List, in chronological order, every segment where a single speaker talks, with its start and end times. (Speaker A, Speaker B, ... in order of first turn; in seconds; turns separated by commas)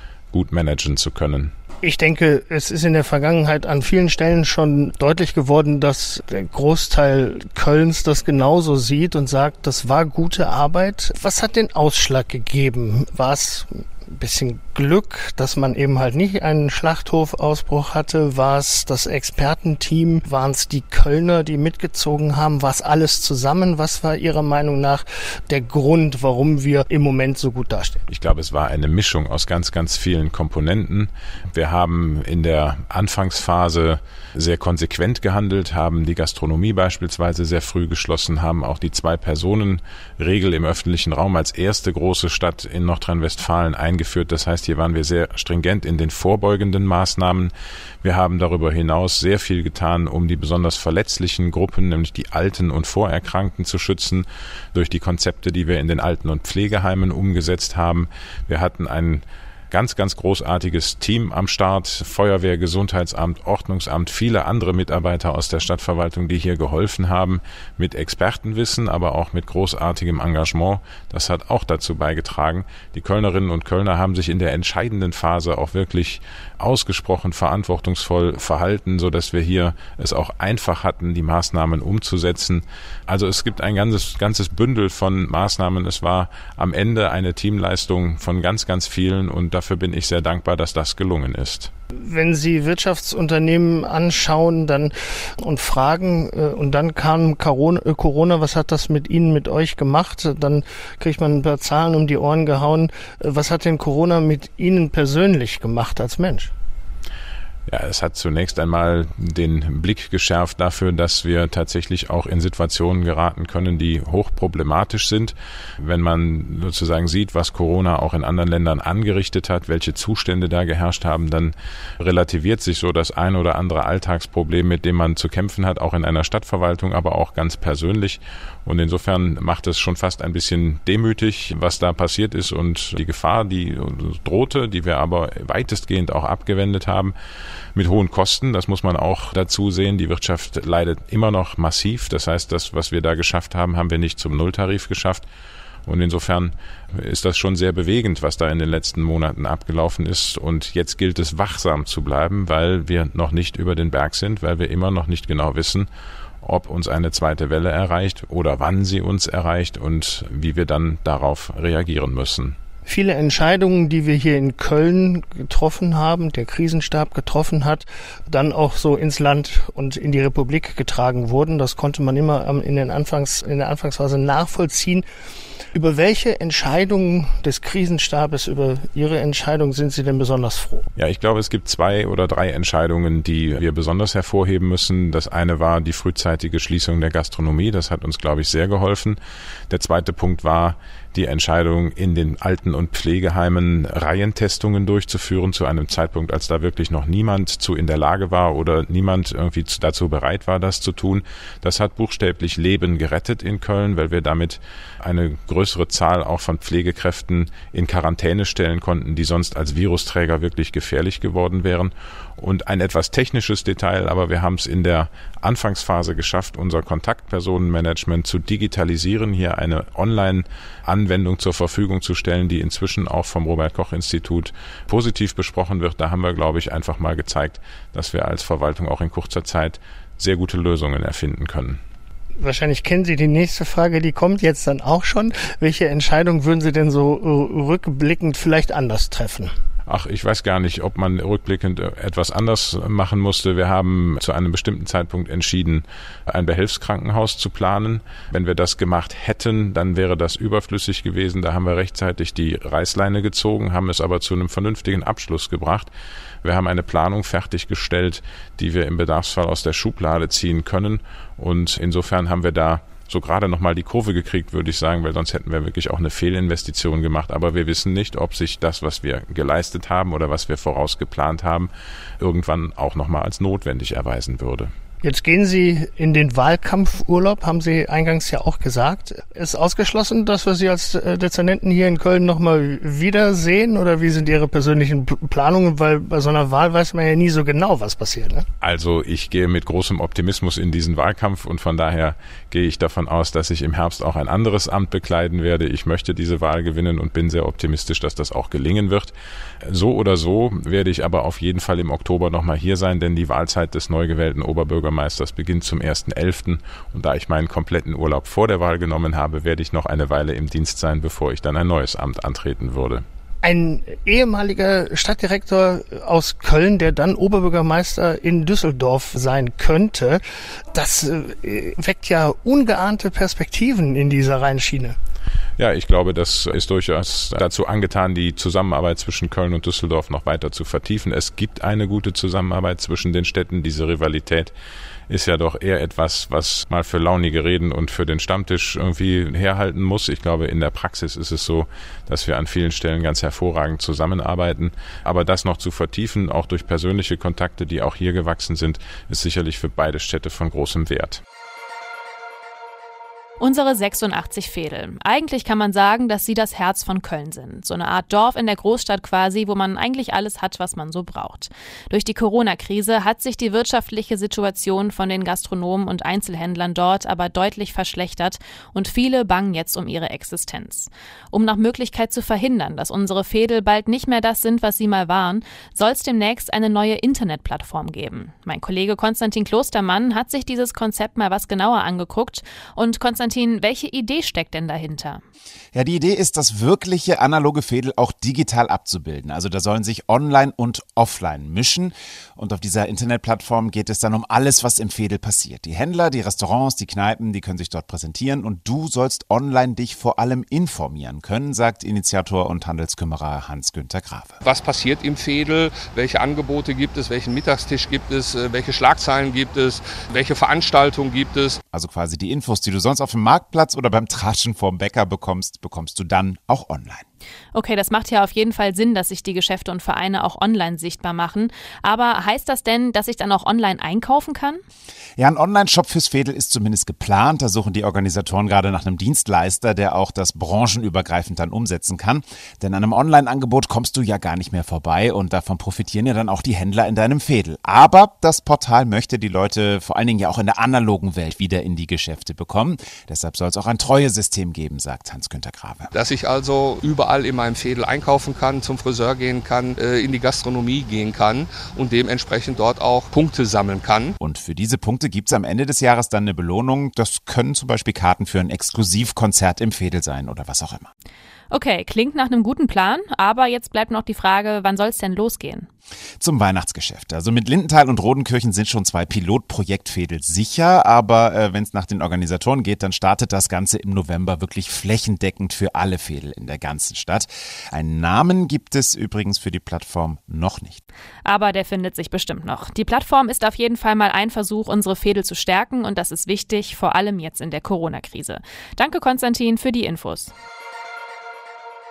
Speaker A: 0.3-1.5, Speaker B: 1.8-28.0, Speaker A: 28.1-47.5, Speaker A: 48.0-91.7, Speaker B: 92.0-106.5, Speaker A: 107.7-137.1, Speaker A: 137.7-145.2, Speaker A: 145.8-155.9, Speaker A: 156.4-162.6, Speaker B: 162.9-175.0, Speaker B: 175.7-180.8, Speaker A: 180.9-189.2, Speaker A: 189.7-231.8, Speaker B: 232.4-239.5, Speaker A: 239.9-255.9, Speaker A: 256.4-274.7, Speaker B: 275.0-288.4, Speaker A: 288.6-299.1, Speaker A: 299.6-313.0, Speaker B: 313.4-320.2, Speaker B: 320.7-324.9, Speaker A: 325.6-334.5, Speaker A: 335.1-351.2, Speaker C: 353.4-385.2, Speaker D: 385.7-404.4, Speaker E: 404.4-411.6, Speaker D: 411.7-417.1, Speaker C: 417.5-424.6, Speaker D: 425.2-445.9, Speaker E: 445.9-454.1, Speaker D: 454.2-460.9, Speaker C: 461.5-465.7, Speaker D: 466.2-480.8, Speaker C: 481.2-490.3